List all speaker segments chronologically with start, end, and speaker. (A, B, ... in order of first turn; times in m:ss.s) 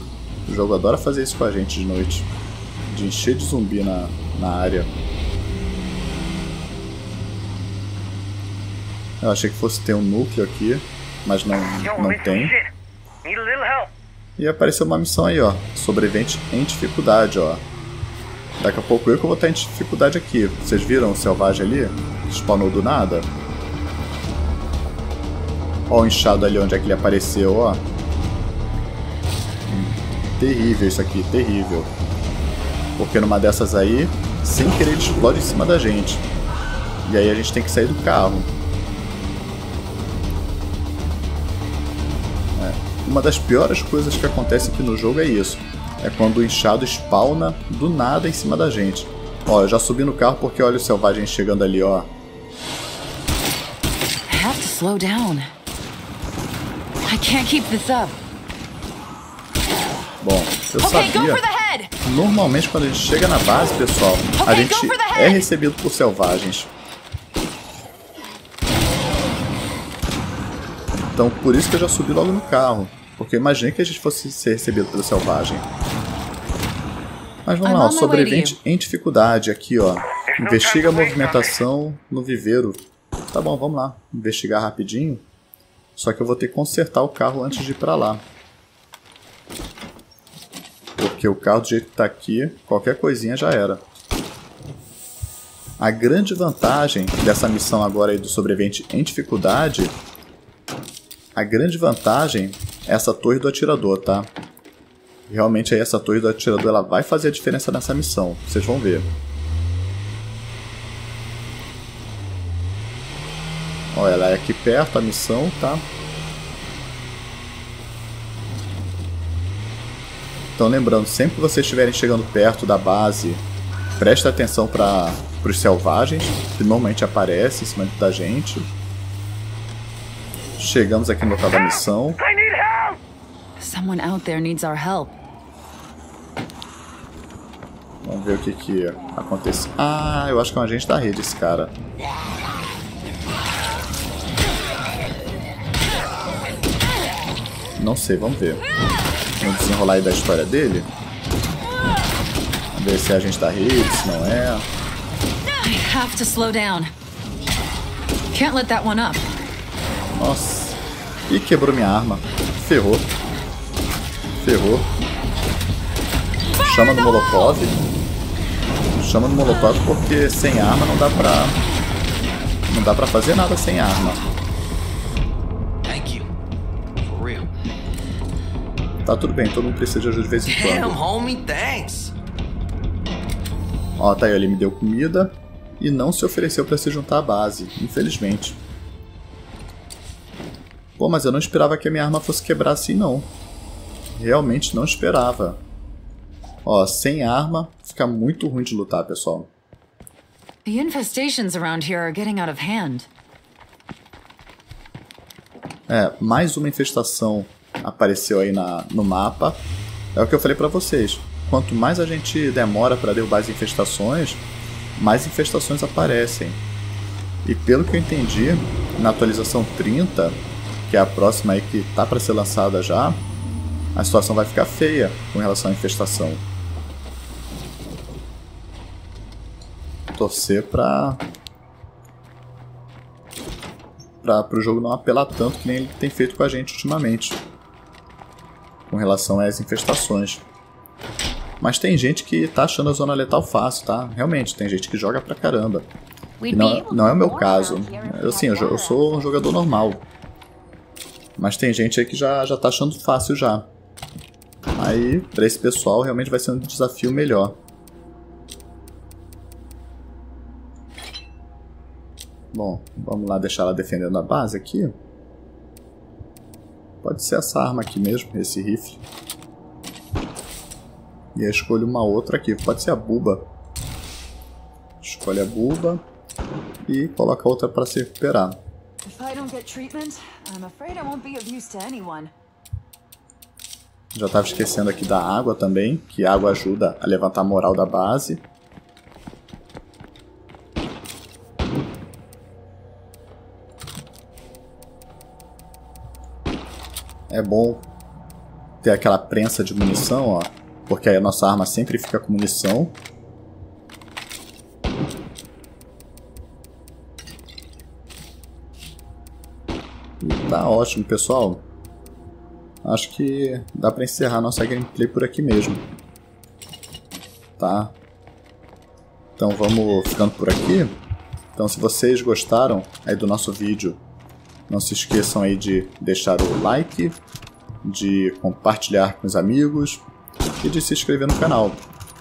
0:00.5-0:02.3 A
0:02.9-0:04.9 A
0:09.2-0:12.6 A
0:11.8-0:12.7 B
0:13.2-0:13.9 B
0:14.4-0:17.6 A
0:18.6-0:23.3 A
0:25.9-0:27.8 A
0:29.7-0:31.9 A
0:33.0-0:36.3 A
0:37.0-0:38.5 A
0:42.6-0:52.1 A
0:54.3-0:55.5 C
0:57.0-0:58.2 C
1:00.2-1:01.4 A
1:00.8-1:01.9 C
1:02.0-1:06.7 A
1:04.4-1:05.5 C
1:11.2-1:15.7 A
1:17.4-1:25.2 A
1:17.6-1:18.6 C
1:20.3-1:21.6 B
1:26.0-1:28.2 A
1:31.0-1:33.8 A
1:35.8-1:40.0 A
1:41.4-1:44.3 A
1:45.3-1:49.1 A
1:53.9-1:55.9 A
2:00.6-2:03.4 A
2:04.0-2:08.7 A
2:10.6-2:12.2 A
2:12.2-2:13.0 B
2:13.6-2:15.2 C
2:18.0-2:21.7 A
2:27.8-2:28.6 A
2:29.4-2:30.9 A
2:32.7-2:34.7 A
2:35.4-2:36.9 C
2:38.3-2:39.3 C
2:40.1-2:43.1 A
2:44.4-2:44.9 A
2:46.6-2:47.8 A
2:49.0-2:51.6 A
2:52.7-2:54.2 A
2:55.8-2:56.3 D
2:57.0-2:57.5 D
2:59.0-3:01.0 A
3:00.5-3:02.1 D
3:04.0-3:08.6 A
3:11.0-3:13.3 A
3:14.2-3:15.6 A
3:16.6-3:19.5 A
3:20.6-3:23.1 C
3:25.9-3:34.4 A
3:35.0-3:36.6 A
3:37.4-3:43.2 A
3:44.0-3:46.4 A
3:50.2-3:51.2 A
3:54.2-3:57.4 A
3:58.9-4:00.4 A
4:01.6-4:05.9 A
4:06.4-4:09.7 C
4:06.5-4:10.0 A
4:11.4-4:13.7 A
4:14.8-4:17.6 A
4:22.5-4:24.9 A
4:27.0-4:29.0 A
4:31.4-4:33.5 A
4:35.0-4:36.0 A
4:36.8-4:38.6 A
4:39.0-4:42.3 C
4:44.1-4:48.4 A
4:57.3-4:57.9 A
4:58.8-5:03.0 A
5:10.2-5:11.6 A
5:12.8-5:15.8 A
5:17.6-5:17.9 A
5:19.4-5:21.0 A
5:21.6-5:24.0 A
5:24.7-5:27.2 A
5:27.8-5:30.0 A
5:30.6-5:31.8 A